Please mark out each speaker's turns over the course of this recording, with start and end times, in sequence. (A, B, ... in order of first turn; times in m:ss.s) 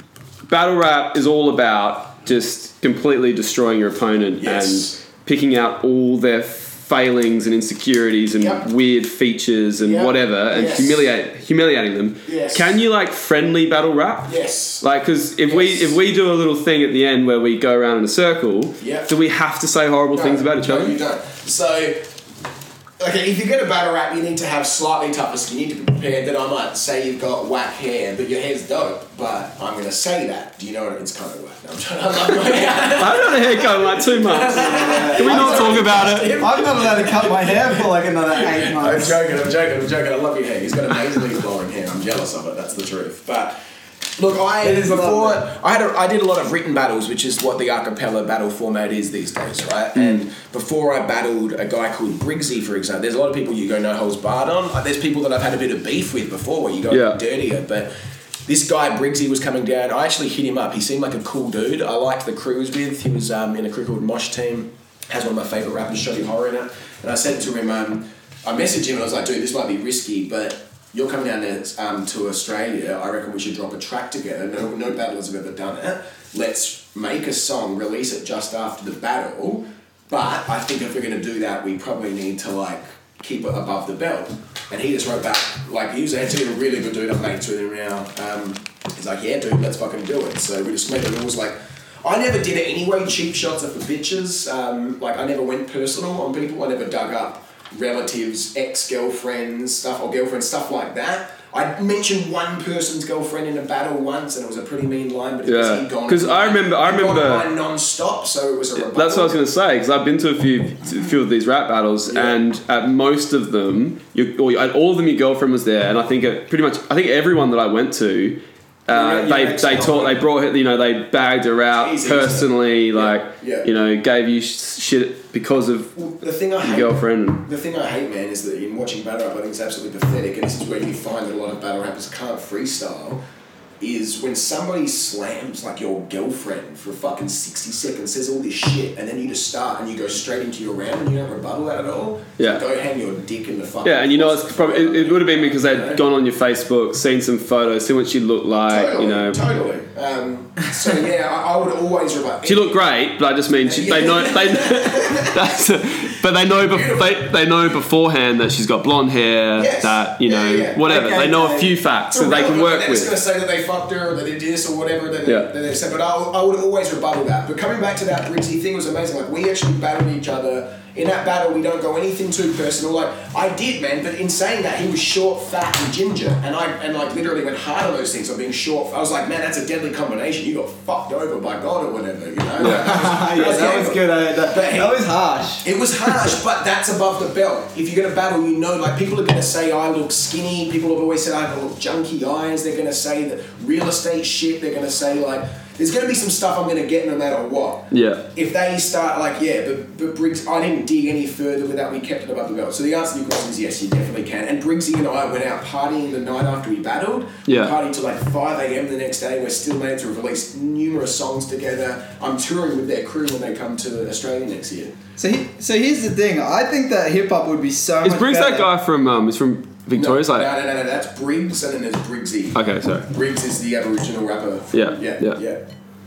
0:00.5-0:21.0 A
0:04.4-0:05.0 B
0:08.4-0:08.7 B
0:09.8-0:11.1 B
0:12.2-0:12.7 B
0:14.3-0:14.8 B
0:15.4-0:16.0 B
0:18.8-0:19.1 B
0:20.1-0:22.0 B
0:23.0-0:43.6 B
0:32.9-0:36.4 A
0:34.5-0:39.2 C
0:44.2-0:57.9 B
0:44.6-0:45.5 C
0:50.0-0:50.2 A
0:56.9-0:57.2 A
0:58.5-1:49.4 B
1:45.4-1:47.5 A
1:48.8-2:06.0 A
1:52.1-1:52.4 B
1:58.9-2:00.2 C
2:01.7-2:03.7 B
2:06.0-2:13.2 B
2:06.6-2:07.4 A
2:13.8-2:26.0 B
2:23.8-2:29.4 A
2:28.6-2:32.8 B
2:32.4-2:43.1 A
2:33.6-2:35.4 B
2:36.5-2:37.4 B
2:39.6-2:40.8 B
2:40.9-2:41.8 C
2:42.1-3:05.1 B
2:45.3-2:45.5 A
3:02.6-3:03.3 A
3:02.6-3:06.3 C
3:05.6-3:35.0 B
3:17.9-3:18.3 A
3:27.5-3:27.7 A
3:35.2-3:38.7 C
3:38.0-3:40.5 A
3:39.9-3:45.6 B
3:42.6-3:43.1 A
3:44.7-3:45.4 A